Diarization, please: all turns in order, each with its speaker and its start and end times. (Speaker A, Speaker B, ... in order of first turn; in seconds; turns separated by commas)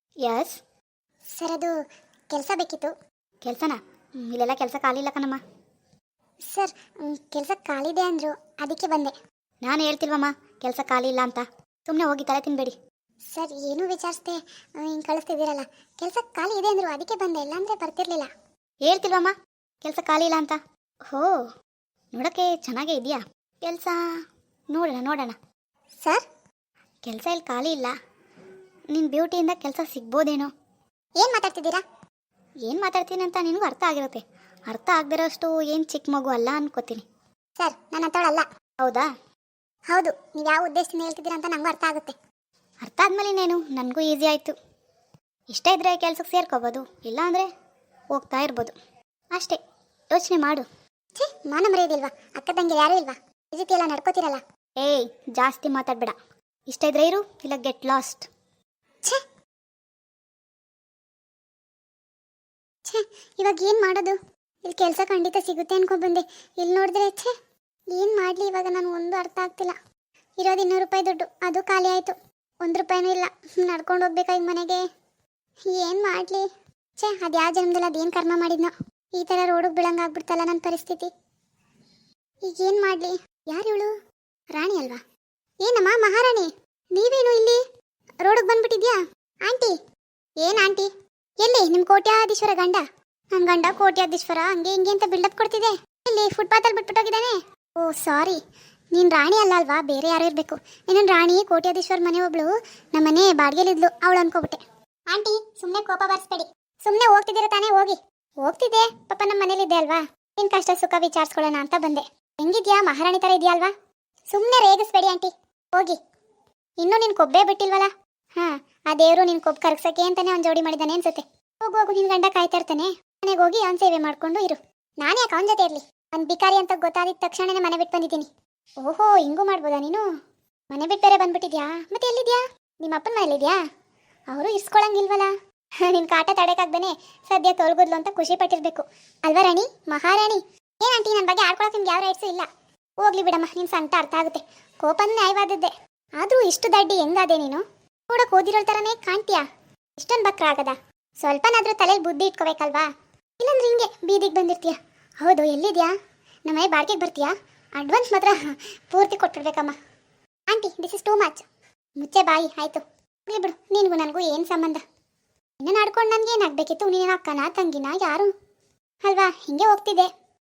Speaker A: 0.2-0.6, Speaker B: 1.4-1.7, Speaker B: 2.3-2.9, Speaker A: 3.4-5.4, Speaker B: 6.5-9.1, Speaker A: 9.6-12.8, Speaker B: 13.3-18.3, Speaker A: 18.8-21.3, Speaker A: 22.1-24.0, Speaker A: 24.7-25.4, Speaker A: 27.0-27.9, Speaker A: 28.9-30.5, Speaker B: 31.2-31.8, Speaker A: 32.6-37.0, Speaker B: 37.6-38.4, Speaker A: 38.8-39.1, Speaker B: 39.9-42.1, Speaker A: 42.8-44.5, Speaker A: 45.5-47.5, Speaker A: 48.1-48.7, Speaker A: 49.3-49.6, Speaker A: 50.1-50.6, Speaker B: 51.1-54.4, Speaker A: 54.8-56.1, Speaker A: 56.7-58.3, Speaker B: 62.9-67.3, Speaker B: 67.9-69.7, Speaker B: 70.4-74.8, Speaker B: 75.7-76.4, Speaker B: 77.0-81.1, Speaker B: 82.5-83.9, Speaker B: 84.5-85.0, Speaker B: 85.6-87.6, Speaker B: 88.2-89.7, Speaker B: 90.4-90.9, Speaker B: 91.4-92.8, Speaker B: 93.3-98.4, Speaker B: 98.9-104.6, Speaker B: 105.1-113.7, Speaker B: 114.3-116.0, Speaker B: 116.8-128.3, Speaker B: 128.8-130.0, Speaker B: 130.7-133.6, Speaker B: 134.3-135.3, Speaker B: 135.9-142.5, Speaker B: 143.0-149.4, Speaker B: 150.0-152.8, Speaker B: 153.4-155.9, Speaker B: 156.5-158.4, Speaker B: 158.9-159.7, Speaker B: 160.5-161.4, Speaker B: 162.0-164.8, Speaker B: 165.6-168.3, Speaker B: 169.0-170.1